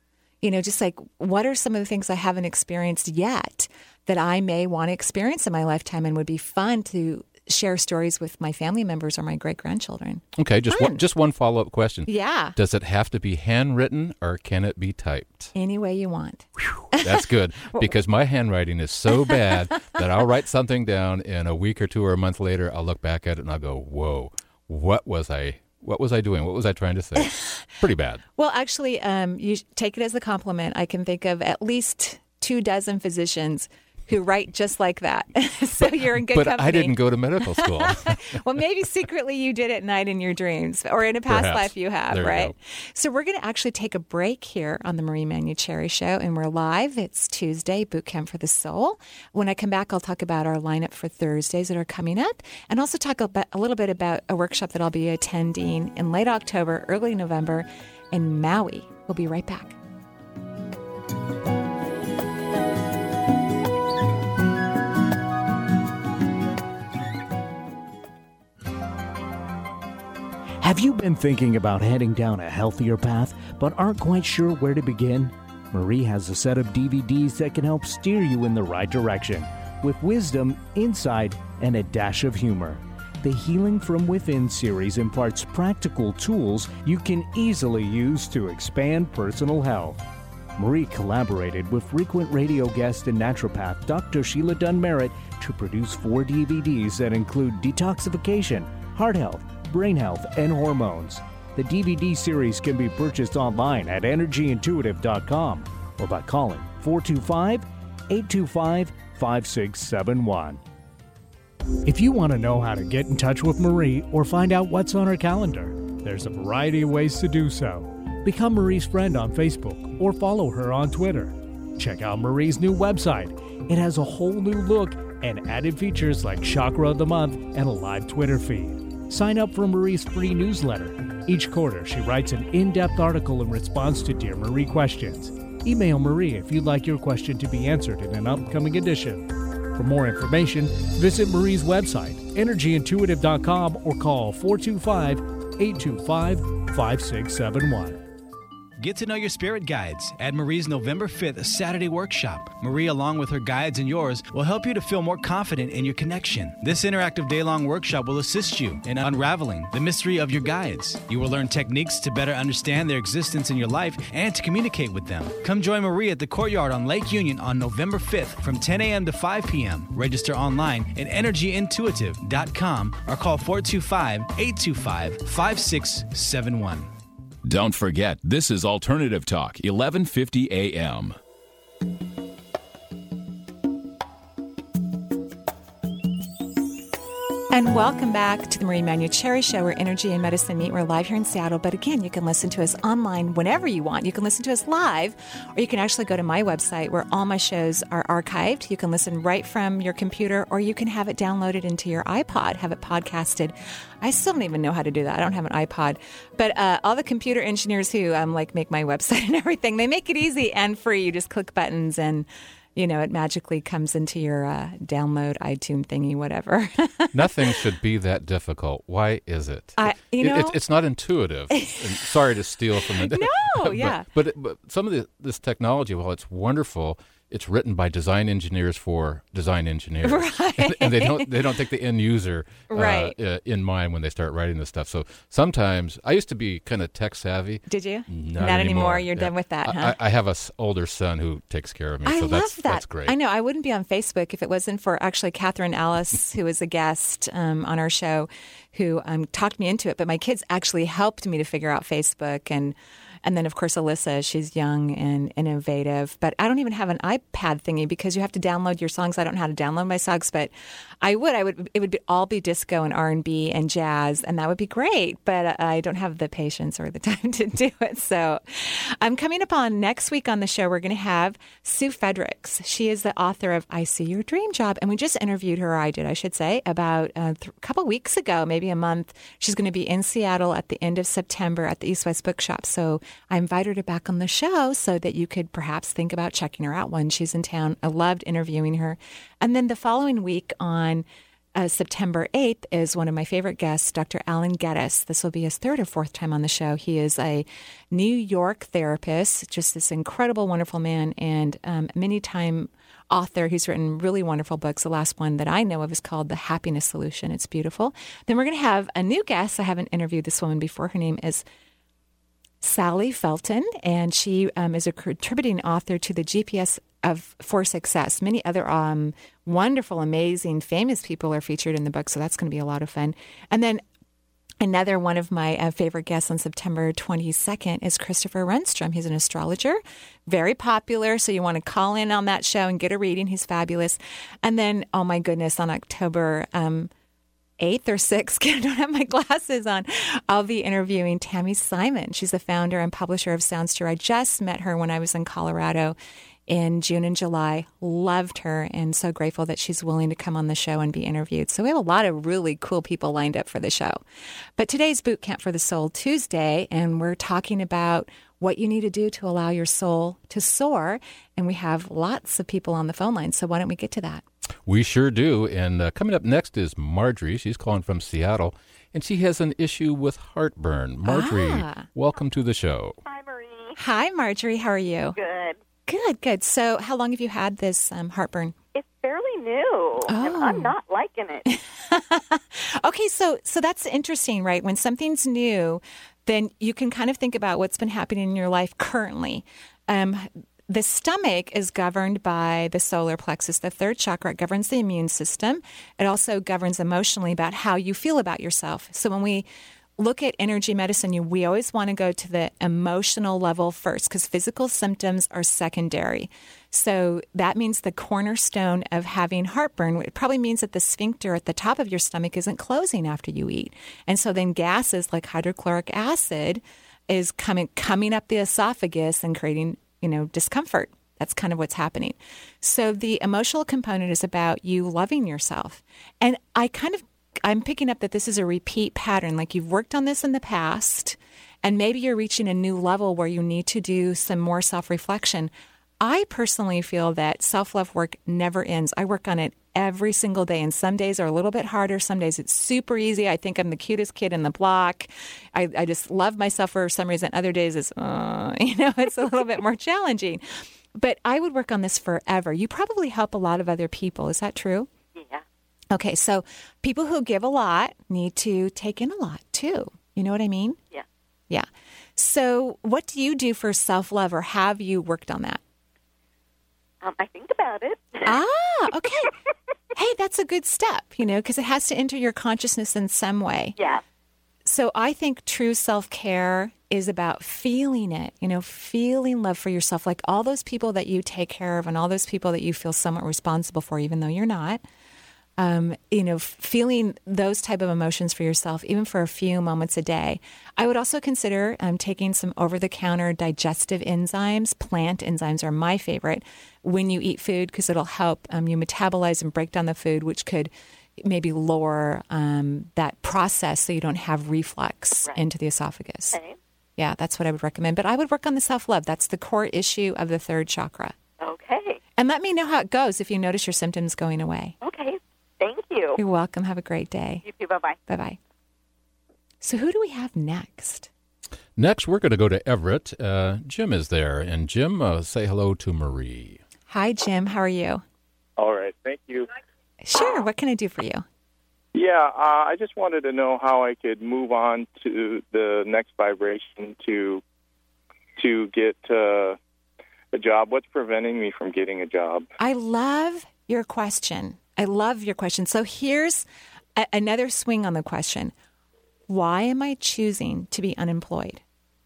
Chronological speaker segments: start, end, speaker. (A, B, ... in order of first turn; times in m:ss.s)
0:00.4-0:11.1 A
0:10.4-0:15.5 B
0:12.1-0:12.6 A
0:15.5-0:17.9 A
0:16.8-0:28.2 B
0:19.1-0:19.5 A
0:28.4-0:59.8 A
0:35.8-0:38.4 B
0:41.3-0:42.5 B
1:10.6-1:30.0 C
1:30.6-1:50.6 C
1:51.8-2:28.0 C
2:28.8-2:56.9 D
2:57.4-3:01.2 E
3:07.5-3:37.6 A
3:37.1-4:03.2 B
3:39.8-3:40.6 A
3:41.6-3:41.9 A
3:42.9-3:44.1 A
3:50.0-3:51.4 A
3:52.7-3:53.2 A
3:57.7-4:00.0 A
4:02.0-5:11.4 A
5:12.6-5:23.8 A
5:24.6-5:36.9 A
5:37.6-5:46.0 A
5:46.5-5:54.0 A
5:54.6-6:04.2 A
6:04.7-6:13.0 B
6:11.0-6:11.9 A
6:13.0-6:13.7 F
6:13.8-6:15.2 A
6:15.2-6:15.6 F
6:15.9-6:18.6 A
6:18.8-6:21.5 F
6:20.1-6:20.8 A
6:21.5-6:39.5 A
6:40.0-7:34.9 A
7:35.2-7:35.4 F
7:35.9-7:40.8 A
7:41.5-7:45.6 A
7:47.0-7:48.4 F
7:48.2-7:49.3 A
7:50.0-7:53.8 A
7:53.8-7:54.0 F
7:54.6-8:04.8 A
8:05.6-8:26.4 A
8:27.0-8:31.2 A
8:31.4-8:32.0 F
8:32.2-8:34.8 A
8:34.8-8:36.2 F
8:36.2-8:37.4 A
8:37.4-8:38.0 F
8:38.1-8:38.4 A
8:39.6-8:41.1 A
8:41.8-8:46.6 B
8:46.9-8:48.0 A
8:48.6-8:49.5 G
8:50.0-8:51.2 A
8:51.9-8:57.4 G
8:58.4-8:59.6 G
9:00.3-9:02.5 G
9:02.6-9:08.5 A
9:09.3-9:11.6 A